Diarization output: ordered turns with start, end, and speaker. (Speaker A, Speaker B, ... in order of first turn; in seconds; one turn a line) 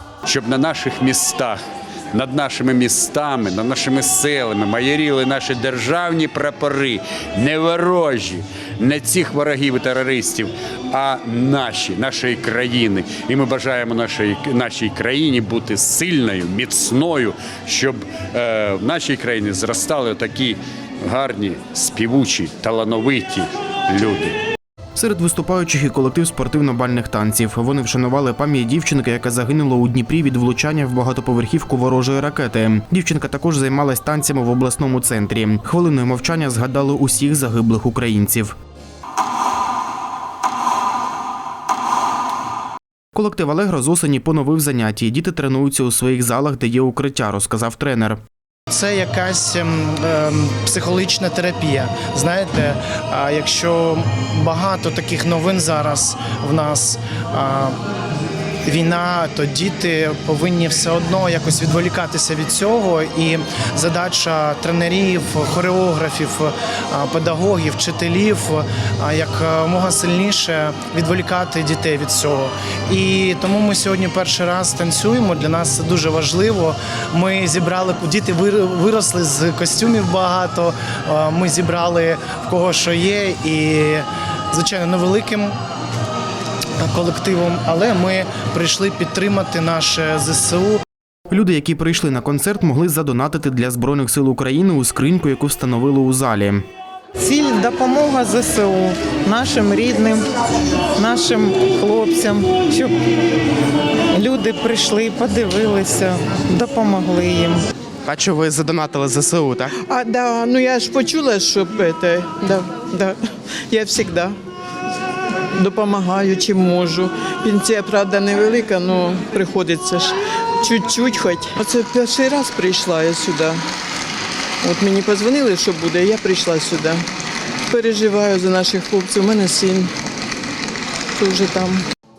Speaker A: 0.2-1.6
Speaker A: 2.1-24.4
Speaker B: 24.9-38.5
Speaker B: 43.1-48.2
Speaker C: 48.7-57.7
Speaker C: 58.6-85.5
Speaker C: 86.8-90.8
Speaker B: 91.3-96.6
Speaker D: 97.2-100.2
Speaker D: 101.0-102.9
Speaker D: 104.1-107.6
Speaker B: 108.0-109.8
Speaker E: 109.8-113.2
Speaker E: 113.7-114.3
Speaker E: 115.5-123.6
Speaker E: 124.6-127.0
Speaker E: 127.7-129.9
Speaker E: 131.2-131.8